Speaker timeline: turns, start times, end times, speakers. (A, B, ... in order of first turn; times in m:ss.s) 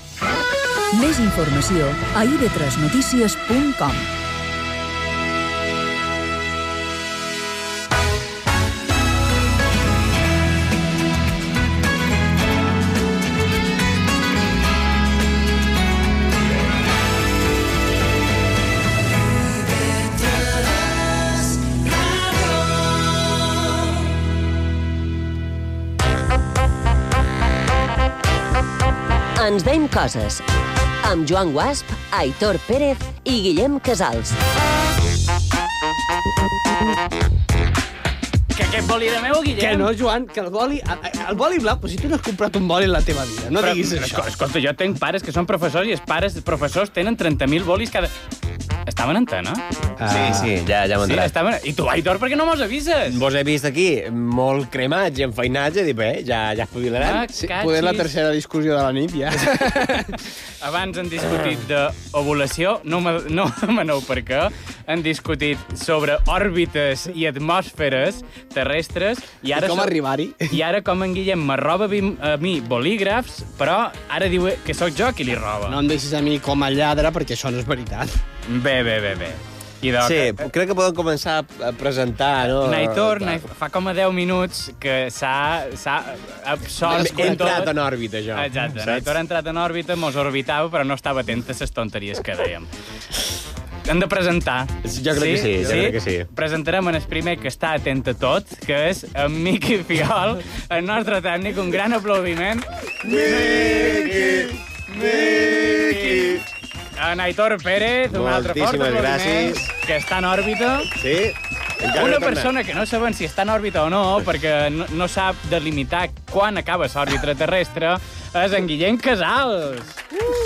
0:00.9-0:04.1 A
0:29.4-0:30.4 B
0:31.0-0:34.4 B
0:38.6-0:39.9 C
0:39.6-0:44.3 D
0:43.6-0:48.1 C
0:48.9-0:49.6 C
0:50.0-0:50.5 D
0:50.1-0:51.3 E
0:51.0-0:53.2 C
0:53.1-0:57.3 E
0:57.0-0:58.1 C
0:57.4-1:00.2 D
1:00.6-1:10.0 C
1:09.5-1:10.6 D
1:10.5-1:15.8 C
1:15.7-1:18.1 D
1:18.5-1:20.5 C
1:20.0-1:23.4 E
1:22.6-1:27.8 C
1:26.8-1:29.1 E
1:27.1-1:27.4 D
1:28.3-1:32.7 C
1:33.9-1:42.7 C
1:34.8-1:36.3 E
1:43.0-1:46.4 E
1:43.4-1:44.3 C
1:45.0-1:46.4 C
1:47.0-1:50.9 C
1:48.1-1:49.7 E
1:51.0-1:52.5 E
1:51.9-2:00.0 C